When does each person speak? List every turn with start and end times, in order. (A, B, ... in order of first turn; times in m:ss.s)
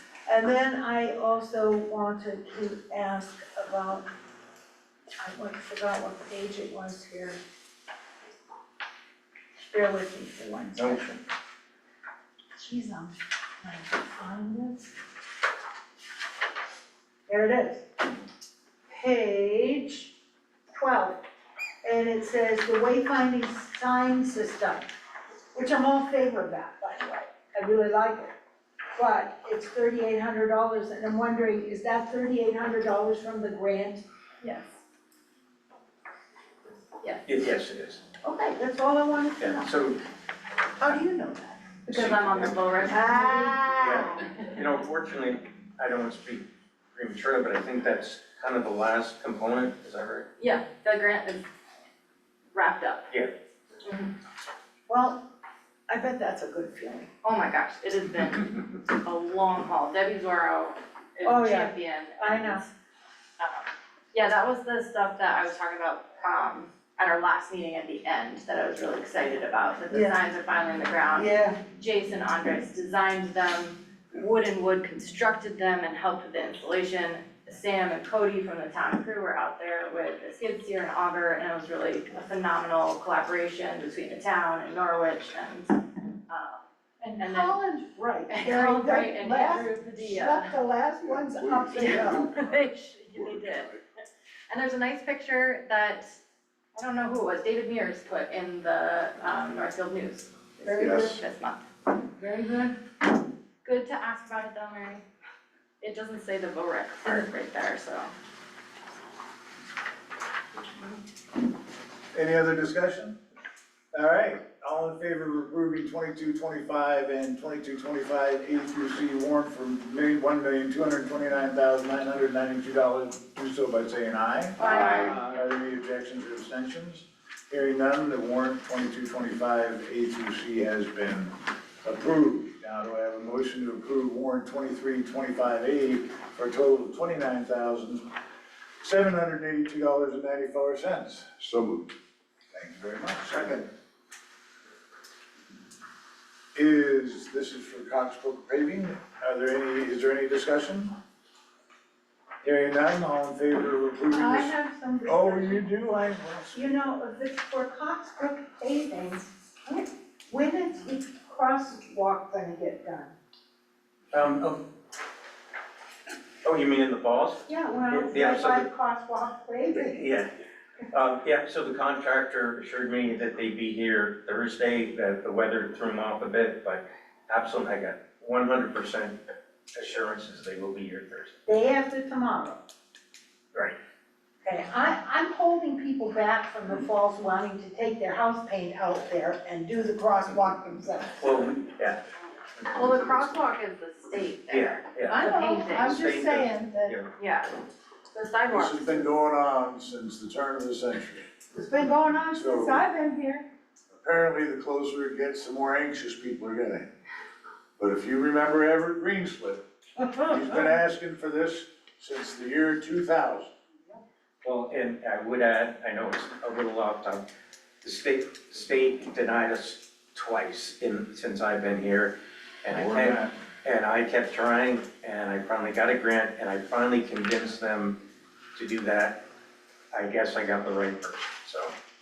0:00.3-0:04.1 A
0:05.2-0:07.4 A
0:09.6-0:11.1 A
0:10.8-0:11.2 B
0:12.5-0:14.9 A
0:17.3-0:17.8 A
0:18.9-0:20.1 A
0:20.8-0:21.2 A
0:21.8-0:24.9 A
0:25.5-0:28.3 A
0:29.0-0:34.0 A
0:34.4-0:34.7 C
0:37.0-0:37.3 C
0:37.3-0:38.0 B
0:38.2-0:39.8 A
0:39.4-0:40.0 B
0:40.8-0:41.8 A
0:41.9-0:43.6 C
0:41.9-0:43.1 B
0:42.8-0:44.2 A
0:43.8-0:50.3 B
0:44.2-0:44.5 C
0:50.4-0:51.4 C
0:52.5-0:53.1 C
0:53.8-0:54.1 C
0:54.9-0:55.3 A
0:55.9-0:57.1 A
0:57.2-1:02.7 C
1:01.2-1:02.6 A
1:03.4-1:26.6 C
1:09.9-1:10.2 A
1:11.2-1:11.6 A
1:27.0-1:32.4 A
1:27.2-1:27.6 C
1:28.3-1:30.5 C
1:31.0-1:33.8 D
1:31.8-1:33.7 C
1:34.5-1:36.2 C
1:36.8-1:41.6 C
1:40.6-1:41.2 A
1:40.8-1:41.2 D
1:42.2-1:42.8 A
1:43.6-1:45.0 C
1:45.8-1:48.1 C
1:52.1-1:53.2 E
1:53.9-2:18.1 E
2:04.6-2:05.2 C
2:18.8-2:21.3 E
2:21.4-2:21.9 D
2:22.5-2:23.6 E
2:26.6-2:30.9 E
2:32.4-2:34.5 E
2:34.1-2:35.7 A
2:35.0-2:36.9 E
2:36.5-2:43.1 A
2:44.1-2:44.6 B
2:46.4-2:48.7 B
2:47.5-2:50.1 A
2:49.8-2:50.3 B
2:50.9-2:59.2 B
2:59.8-3:01.4 B
3:01.5-3:02.6 A
3:04.4-3:11.6 A
3:11.2-3:12.0 B
3:12.6-3:13.4 B
3:12.7-3:16.0 C
3:14.5-3:15.3 B
3:15.1-3:17.0 A
3:15.8-3:17.1 B
3:17.2-3:17.6 C
3:18.1-3:19.1 C
3:18.5-3:21.3 E
3:21.5-3:23.5 A
3:22.3-3:22.8 E
3:24.0-3:26.9 E
3:27.8-3:29.6 E
3:30.2-3:33.5 E
3:34.4-3:37.2 B
3:37.8-3:48.0 B
3:42.7-3:43.3 E
3:48.6-3:49.2 B
3:49.9-3:51.7 B